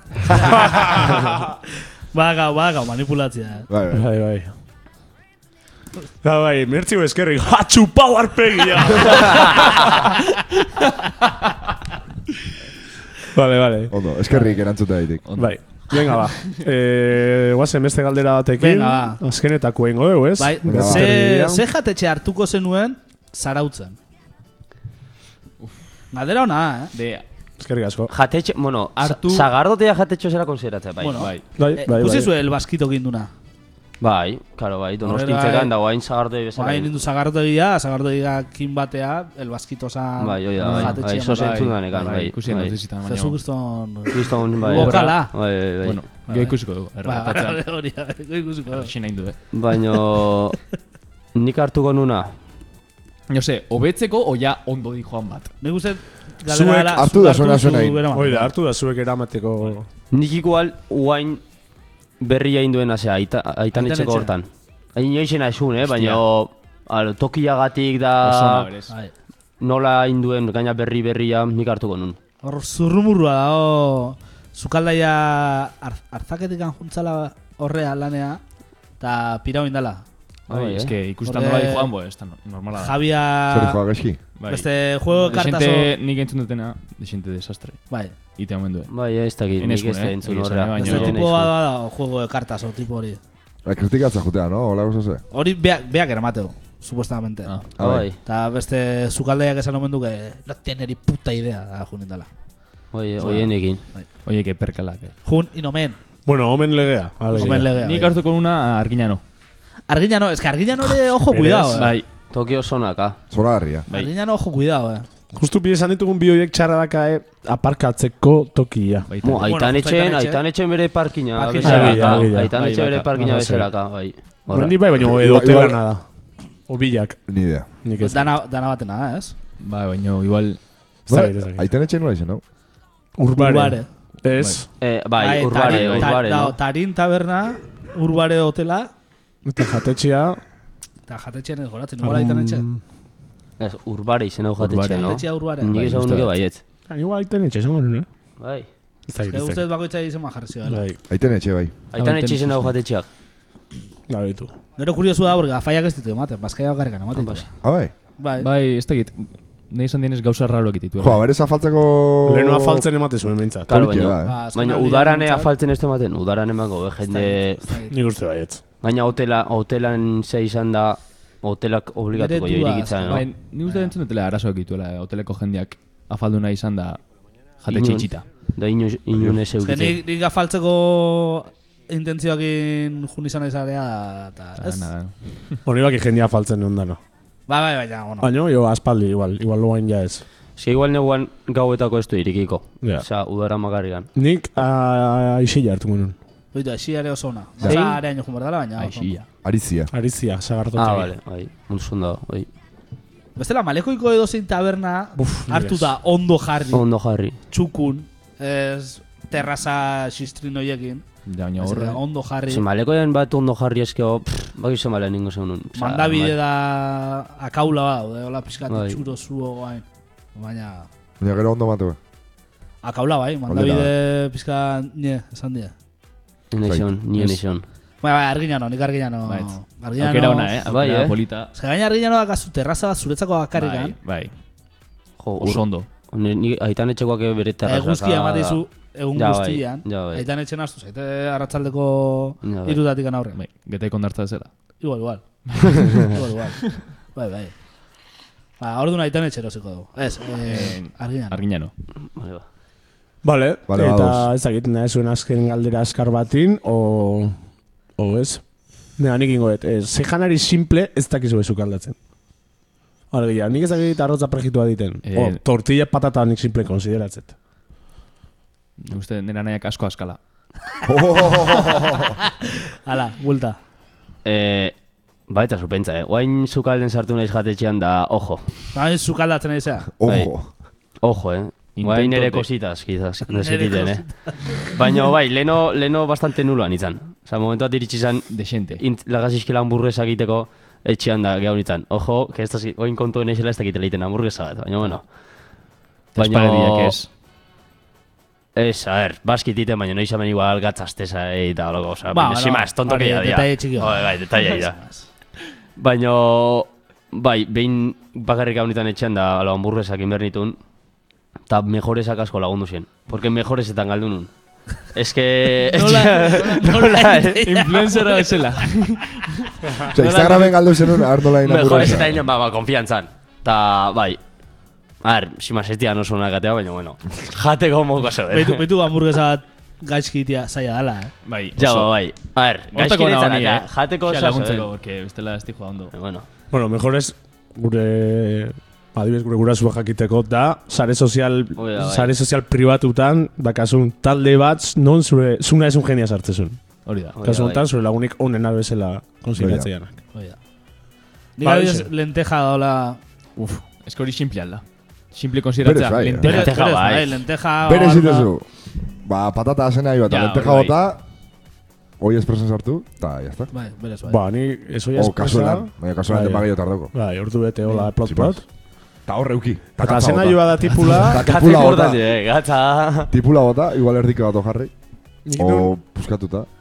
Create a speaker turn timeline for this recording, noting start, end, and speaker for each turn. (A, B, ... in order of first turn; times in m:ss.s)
0:00.3-0:00.7 A
0:02.1-0:03.7 A
0:03.7-0:04.1 B
0:03.9-0:04.5 C
0:06.2-0:09.8 C
0:13.3-0:14.0 C
0:13.9-0:15.3 B
0:15.3-0:16.6 D
0:15.4-0:21.6 C
0:18.6-0:19.2 A
0:20.4-0:24.0 A
0:20.7-0:21.3 B
0:26.1-0:26.9 A
0:26.9-0:27.2 D
0:27.6-0:28.1 C
0:28.1-0:31.3 E
0:29.0-0:29.5 D
0:31.0-0:33.3 A
0:31.2-0:31.4 D
0:31.6-0:32.3 C
0:34.0-0:37.0 E
0:35.0-0:35.7 A
0:36.6-0:41.7 A
0:40.2-0:42.8 E
0:40.6-0:43.4 D
0:43.1-0:45.3 A
0:44.1-0:46.0 E
0:44.7-0:47.6 D
0:46.3-0:48.9 A
0:48.7-0:49.4 D
0:49.5-0:50.6 E
0:51.4-0:52.3 E
0:53.3-0:55.5 D
0:55.6-0:58.5 A
0:56.5-0:58.0 B
0:58.1-0:59.9 C
1:00.1-1:01.4 E
1:02.2-1:08.7 E
1:03.7-1:04.3 A
1:05.8-1:06.2 D
1:08.2-1:08.9 D
1:09.6-1:12.2 E
1:12.4-1:18.4 A
1:19.0-1:20.0 A
1:20.5-1:21.0 E
1:20.5-1:23.0 D
1:21.2-1:21.9 A
1:22.8-1:23.8 A
1:23.5-1:24.2 B
1:24.4-1:28.9 D
1:24.4-1:25.9 A
1:28.9-1:31.5 E
1:29.6-1:31.3 D
1:30.8-1:33.2 A
1:33.6-1:35.2 B
1:35.3-1:37.6 A
1:37.8-1:38.0 B
1:37.8-1:38.2 E
1:38.2-1:42.3 A
1:42.9-1:43.8 E
1:43.2-1:44.1 A
1:44.2-1:45.2 D
1:45.2-1:46.0 A
1:46.3-1:47.7 C
1:47.3-1:48.2 A
1:47.4-1:49.2 D
1:49.9-1:52.0 A
1:51.2-1:51.9 C
1:51.7-1:52.1 D
1:52.3-1:53.2 E
1:53.3-1:53.9 B
1:53.9-1:55.1 A
1:55.3-1:59.1 C
1:59.1-1:59.6 D
1:59.2-2:04.8 E
1:59.4-2:00.4 A
2:01.4-2:02.2 A
2:01.6-2:02.6 C
2:01.6-2:03.1 D
2:03.2-2:03.7 C
2:04.5-2:06.0 C
2:05.0-2:05.8 B
2:06.7-2:07.2 C
2:07.3-2:07.7 B
2:07.8-2:08.3 C
2:08.0-2:09.3 A
2:09.6-2:10.6 D
2:11.1-2:11.7 C
2:11.1-2:12.4 B
2:13.2-2:14.7 C
2:13.4-2:13.9 A
2:14.3-2:14.6 D
2:14.8-2:16.6 E
2:15.2-2:18.9 A
2:15.6-2:16.2 D
2:19.4-2:20.4 C
2:21.1-2:22.6 A
2:22.0-2:22.8 C
2:23.6-2:26.6 E
2:24.6-2:26.4 D
2:24.9-2:25.8 A
2:26.9-2:28.1 C
2:28.4-2:28.7 E
2:29.1-2:29.7 C
2:29.3-2:30.8 A
2:30.7-2:31.0 C
2:31.1-2:31.7 B
2:31.9-2:33.1 E
2:32.0-2:32.7 D
2:34.1-2:34.5 C
2:34.8-2:37.5 A
2:37.2-2:37.5 E
2:37.6-2:37.9 B
2:38.2-2:38.5 A
2:38.4-2:41.2 D
2:41.0-2:42.8 B
2:42.2-2:43.7 C
2:43.7-2:47.7 E
2:43.7-2:44.4 B
2:44.2-2:45.5 A
2:47.1-2:47.9 A
2:47.9-2:48.6 C
2:48.8-2:53.3 E
2:52.1-2:53.9 A
2:53.1-2:57.0 D
2:57.6-2:58.3 D
2:57.7-3:00.0 E
2:59.6-3:04.9 A
3:04.6-3:05.6 D
3:05.7-3:07.0 C
3:07.5-3:08.3 A
3:08.2-3:10.2 C
3:10.6-3:14.1 E
3:14.2-3:16.2 C
3:16.5-3:19.1 A
3:17.7-3:18.0 D
3:18.8-3:19.3 D
3:19.4-3:19.9 B
3:19.9-3:21.1 C
3:20.8-3:22.5 E
3:23.4-3:26.9 A
3:25.2-3:25.9 C
3:26.7-3:27.4 E
3:27.5-3:31.0 A
3:31.3-3:32.0 D
3:31.6-3:32.6 A
3:32.5-3:36.4 E
3:35.8-3:40.9 A
3:38.7-3:39.0 E
3:41.2-3:42.0 B
3:42.8-3:45.7 A
3:43.5-3:43.9 B
3:46.5-3:47.6 E
3:48.0-3:50.6 A
3:49.2-3:51.5 D
3:50.7-3:51.2 E
3:51.5-3:54.0 A
3:53.6-3:54.3 D
3:55.2-3:58.6 E
3:55.4-3:55.9 D
3:57.6-4:03.4 A
3:59.2-4:00.2 E
4:02.4-4:02.8 E
4:03.3-4:04.5 D
4:04.8-4:07.5 A
4:05.6-4:06.0 D
4:08.6-4:11.4 A
4:10.4-4:11.7 D
4:12.2-4:12.4 E
4:13.2-4:17.4 C
4:13.7-4:14.3 B
4:18.0-4:18.4 C
4:19.0-4:22.0 C
4:23.1-4:27.3 C
4:25.1-4:25.4 D
4:28.8-4:30.2 D
4:30.9-4:32.2 B
4:31.6-4:32.3 A
4:32.8-4:33.6 A
4:34.2-4:34.8 E
4:35.3-4:38.6 E
4:38.7-4:39.9 A
4:40.0-4:40.5 B
4:40.1-4:40.3 E
4:41.0-4:55.1 E
4:41.8-4:42.5 D
4:43.3-4:44.4 A
4:48.3-4:48.8 D
4:56.2-4:57.1 D
4:56.2-4:57.0 E
4:58.6-5:04.8 E
5:02.1-5:05.1 A
5:05.8-5:10.6 E
5:11.5-5:14.3 E
5:14.9-5:17.6 E
5:15.6-5:18.7 A
5:17.4-5:20.4 D
5:19.8-5:20.6 A
5:19.9-5:22.3 B
5:21.4-5:24.2 E
5:25.0-5:28.7 E
5:28.3-5:31.1 A
5:31.2-5:31.9 D
5:31.6-5:34.7 E
5:32.7-5:35.9 D
5:35.9-5:36.3 E
5:36.5-5:49.9 C
5:41.6-5:42.1 E
5:46.8-5:47.2 D
5:47.2-5:47.6 E
5:49.4-5:49.7 B
5:50.1-5:50.4 A
5:51.4-5:53.0 A
5:51.4-5:51.8 C
5:53.4-5:56.5 D
5:55.6-5:56.3 B
5:56.2-5:57.2 E
5:56.2-5:58.3 A
5:57.6-5:58.5 B
5:59.0-6:01.0 B
6:00.1-6:00.8 D
6:02.0-6:03.5 B
6:03.5-6:04.2 A
6:04.1-6:08.4 C
6:05.0-6:06.9 B
6:08.0-6:08.4 B
6:09.1-6:12.0 B
6:09.8-6:11.2 C
6:10.7-6:11.0 D
6:11.2-6:13.1 E
6:13.1-6:14.7 B
6:15.3-6:15.8 C
6:15.4-6:16.5 B